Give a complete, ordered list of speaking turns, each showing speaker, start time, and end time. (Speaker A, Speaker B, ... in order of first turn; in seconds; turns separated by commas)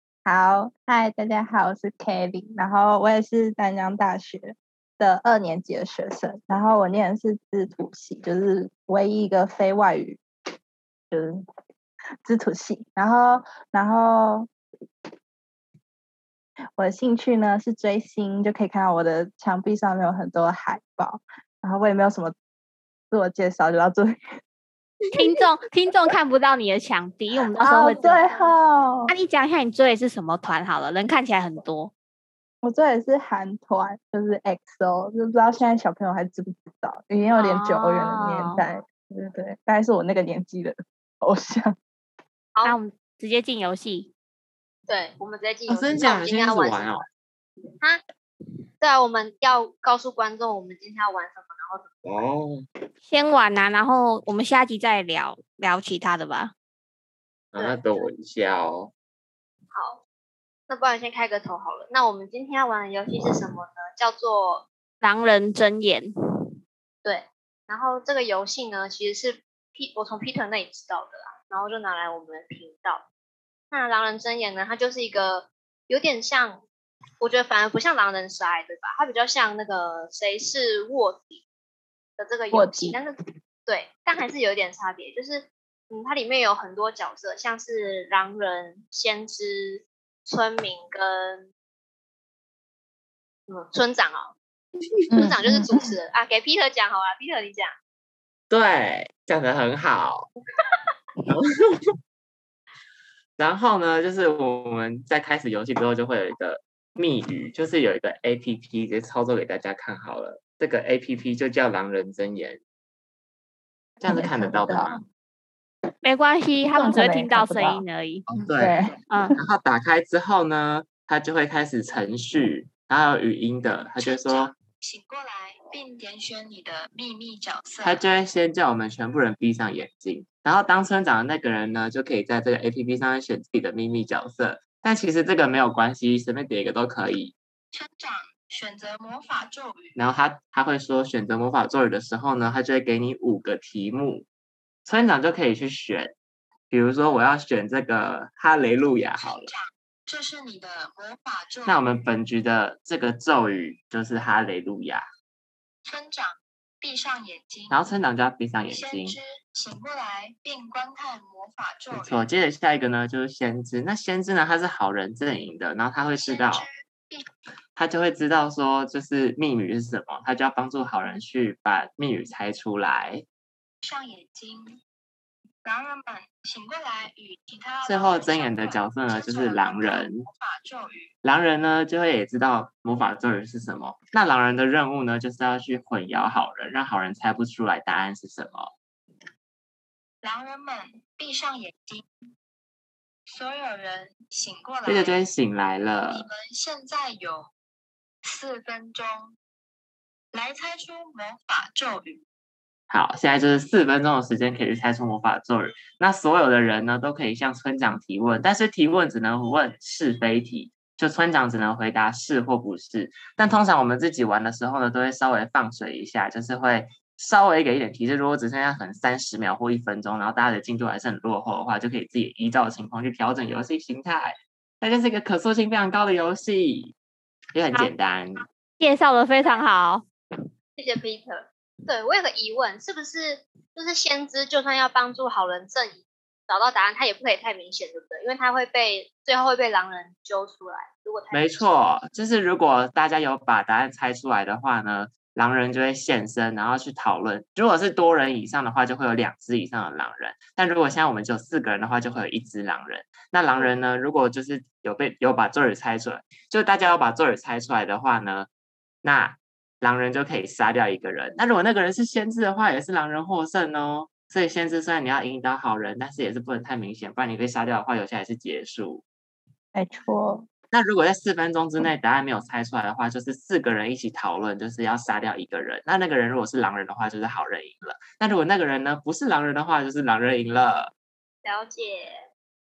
Speaker A: 0.3-10.2, Speaker A: 11.1-11.4, Speaker A: 12.2-14.5, Speaker A: 16.8-22.4, Speaker A: 23.1-24.2, Speaker B: 25.1-28.2, Speaker A: 27.6-29.1, Speaker C: 28.2-28.5, Speaker B: 29.1-31.9, Speaker A: 32.6-41.8, Speaker B: 37.4-38.6, Speaker B: 42.6-44.1, Speaker C: 44.9-47.0, Speaker D: 45.7-47.1, Speaker C: 48.8-52.0, Speaker D: 52.0-52.6, Speaker B: 53.1-56.5, Speaker D: 57.5-58.9, Speaker C: 57.6-57.9, Speaker C: 59.7-60.0, Speaker C: 60.7-64.7, Speaker B: 65.0-66.1, Speaker C: 67.0-73.1, Speaker C: 73.7-76.6, Speaker C: 77.2-81.4, Speaker C: 82.2-83.2, Speaker A: 82.5-83.0, Speaker C: 83.7-91.5, Speaker C: 93.5-94.3, Speaker A: 95.1-95.8, Speaker C: 95.1-97.8, Speaker D: 98.5-100.3, Speaker D: 101.3-101.9, Speaker D: 103.4-112.6, Speaker D: 114.0-115.0, Speaker A: 114.1-115.0, Speaker B: 116.0-118.3, Speaker A: 116.7-117.8, Speaker D: 118.3-118.8, Speaker A: 118.5-119.0, Speaker B: 119.1-119.4, Speaker D: 119.4-124.5, Speaker E: 124.0-128.0, Speaker D: 127.8-137.3, Speaker E: 137.7-140.0, Speaker D: 140.0-144.3, Speaker D: 144.8-146.2, Speaker D: 146.7-149.5, Speaker E: 149.2-151.8, Speaker D: 151.7-155.1, Speaker E: 155.9-157.8, Speaker D: 157.7-159.2, Speaker E: 158.7-162.2, Speaker D: 161.9-166.7, Speaker E: 166.2-167.2, Speaker D: 167.8-173.2, Speaker E: 173.8-174.8, Speaker E: 175.7-181.1, Speaker D: 177.8-180.3, Speaker D: 181.2-188.7, Speaker E: 190.2-192.1, Speaker E: 193.3-195.2, Speaker D: 194.9-196.3, Speaker E: 196.1-197.5, Speaker E: 198.2-199.4, Speaker E: 200.3-202.2, Speaker D: 202.9-226.9, Speaker D: 227.5-228.4, Speaker B: 228.8-230.1, Speaker C: 230.8-241.7, Speaker D: 241.3-258.5, Speaker D: 259.0-269.0, Speaker A: 269.7-270.5, Speaker D: 270.7-280.9, Speaker C: 281.4-282.3